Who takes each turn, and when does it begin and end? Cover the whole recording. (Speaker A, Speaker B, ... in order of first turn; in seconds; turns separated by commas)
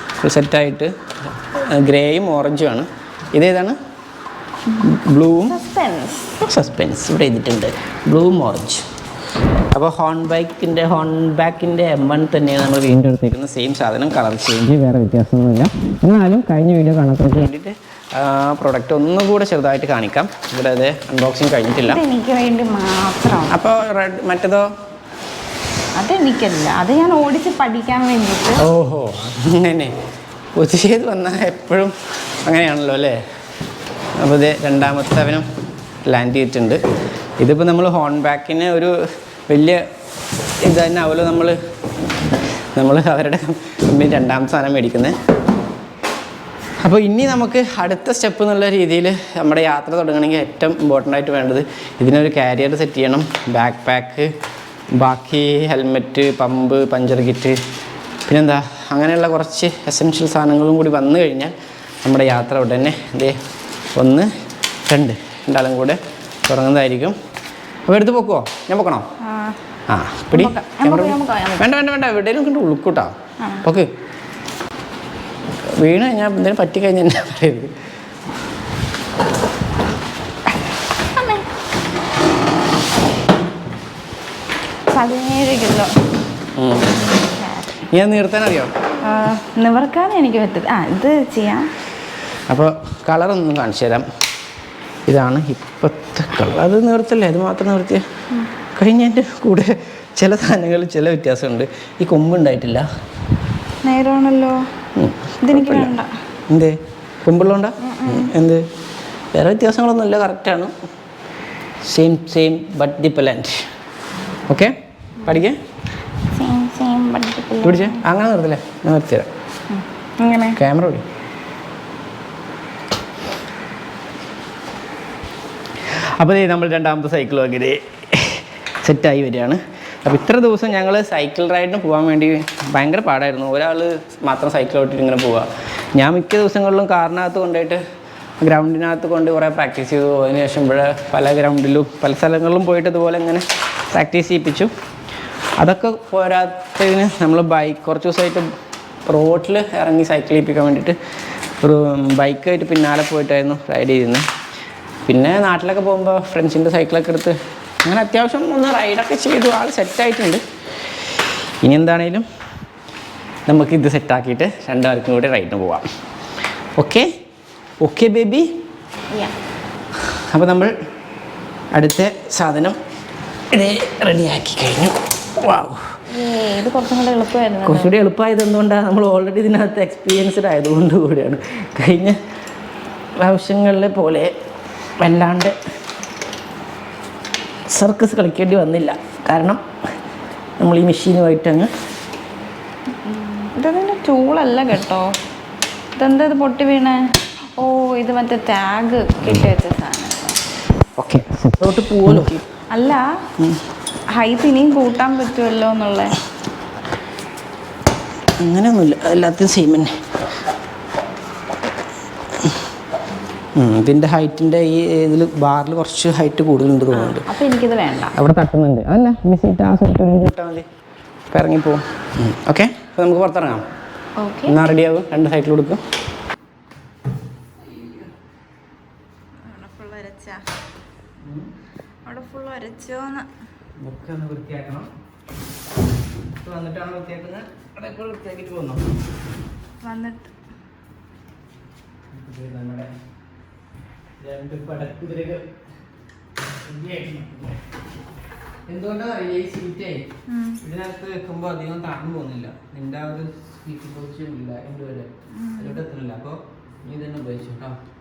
Speaker A: 0.2-3.8, Speaker A: 4.8-5.6, Speaker B: 5.4-6.4, Speaker A: 6.4-8.9, Speaker A: 9.7-22.0, Speaker B: 21.8-23.5, Speaker A: 23.5-24.7, Speaker B: 25.9-28.6, Speaker A: 28.6-29.9, Speaker A: 30.6-31.9, Speaker A: 32.4-33.2, Speaker A: 34.2-35.4, Speaker A: 36.1-36.8, Speaker A: 37.4-39.9, Speaker A: 40.6-45.2, Speaker A: 46.8-54.3, Speaker A: 54.9-57.6, Speaker A: 58.3-63.4, Speaker A: 64.0-64.3, Speaker A: 64.9-67.2, Speaker A: 67.9-69.1, Speaker B: 69.2-69.6, Speaker A: 69.9-73.9, Speaker B: 70.3-71.7, Speaker B: 73.4-73.7, Speaker A: 75.7-77.7, Speaker B: 81.1-81.5, Speaker B: 84.9-85.9, Speaker A: 86.5-87.1, Speaker B: 86.9-87.9, Speaker A: 87.9-88.7, Speaker B: 89.0-91.7, Speaker A: 92.5-94.1, Speaker A: 95.1-98.1, Speaker A: 98.7-102.9, Speaker B: 103.8-104.7, Speaker A: 104.9-106.0, Speaker B: 105.4-106.1, Speaker A: 106.5-108.7, Speaker B: 107.8-108.3, Speaker A: 109.3-110.7, Speaker A: 111.8-113.7, Speaker A: 114.5-115.6, Speaker B: 116.3-118.0, Speaker A: 117.6-119.3, Speaker B: 119.7-120.6, Speaker A: 120.5-121.0, Speaker A: 125.9-137.8, Speaker A: 138.4-144.7, Speaker A: 145.6-148.5, Speaker A: 149.1-150.9, Speaker A: 151.6-154.2, Speaker A: 155.1-160.4, Speaker A: 161.6-162.2, Speaker A: 163.5-165.9, Speaker A: 166.8-167.1, Speaker A: 167.8-168.5, Speaker A: 170.2-170.7, Speaker A: 171.7-172.8, Speaker A: 173.5-175.9, Speaker B: 176.1-177.9, Speaker A: 177.6-182.2, Speaker A: 183.2-184.3, Speaker A: 185.0-185.6, Speaker A: 187.7-189.6, Speaker A: 190.6-191.7, Speaker B: 193.0-195.2, Speaker B: 195.9-200.4, Speaker A: 201.0-202.4, Speaker B: 202.7-203.1, Speaker B: 204.1-206.2, Speaker A: 208.4-210.0, Speaker A: 213.6-217.3, Speaker B: 216.9-218.1, Speaker A: 218.1-220.7, Speaker A: 221.3-223.7, Speaker B: 224.2-224.6, Speaker A: 224.4-225.8, Speaker A: 227.6-228.1, Speaker B: 229.4-230.4, Speaker A: 231.2-231.5, Speaker B: 232.0-233.3, Speaker A: 233.8-234.9, Speaker A: 236.4-238.9, Speaker B: 239.8-240.3, Speaker A: 242.1-242.9, Speaker A: 244.2-245.5, Speaker A: 246.6-247.6, Speaker A: 248.7-250.1, Speaker B: 250.3-250.6, Speaker A: 250.6-257.8, Speaker B: 255.3-255.8